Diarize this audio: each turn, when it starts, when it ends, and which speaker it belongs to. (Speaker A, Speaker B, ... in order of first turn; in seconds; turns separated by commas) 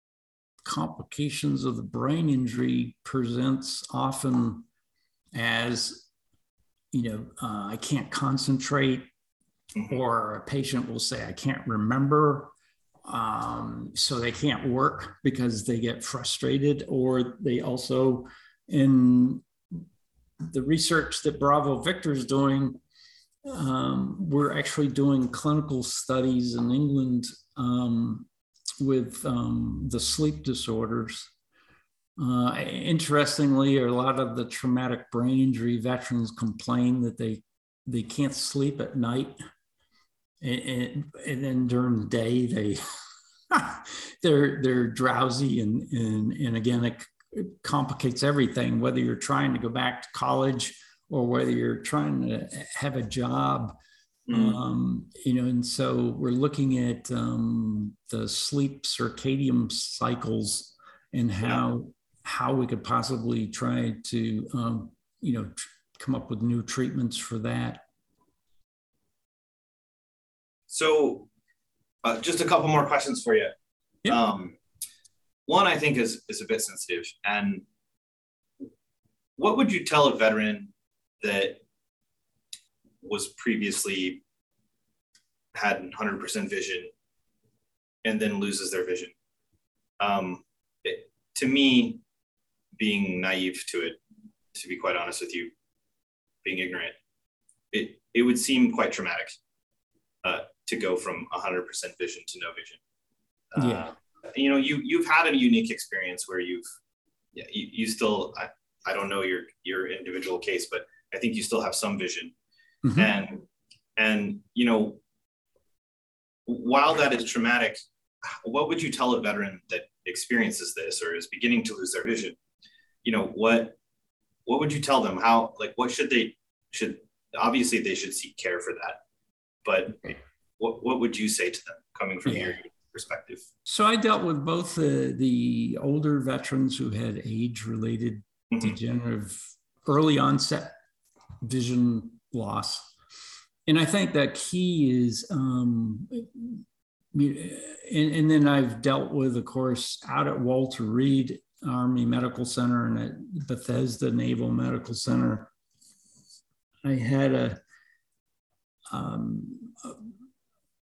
Speaker A: 0.7-4.7, Speaker A: 5.3-6.1, Speaker A: 6.9-9.1, Speaker A: 9.9-12.5, Speaker A: 13.1-19.8, Speaker A: 20.5-22.8, Speaker A: 23.5-28.3, Speaker A: 28.8-31.3, Speaker A: 32.2-39.4, Speaker A: 40.4-42.8, Speaker A: 43.5-53.8, Speaker B: 54.3-54.6, Speaker A: 54.3-67.8, Speaker B: 70.7-71.3, Speaker B: 72.0-73.5, Speaker B: 74.1-74.6, Speaker B: 75.5-77.6, Speaker B: 79.4-81.6, Speaker B: 83.0-84.2, Speaker B: 85.5-86.9, Speaker B: 88.0-89.1, Speaker B: 90.0-92.0, Speaker B: 92.8-94.0, Speaker B: 94.5-95.5, Speaker B: 96.4-97.0, Speaker B: 97.7-99.3, Speaker B: 100.2-102.8, Speaker B: 103.5-106.6, Speaker A: 103.6-103.9, Speaker B: 107.3-112.3, Speaker A: 112.8-113.1, Speaker B: 112.9-115.0, Speaker B: 116.5-122.4, Speaker B: 123.0-123.8, Speaker B: 124.5-129.0, Speaker B: 129.6-133.4, Speaker A: 133.7-140.8, Speaker A: 141.4-142.9, Speaker A: 143.7-146.6, Speaker A: 147.1-155.5, Speaker A: 156.8-157.6, Speaker A: 158.9-160.0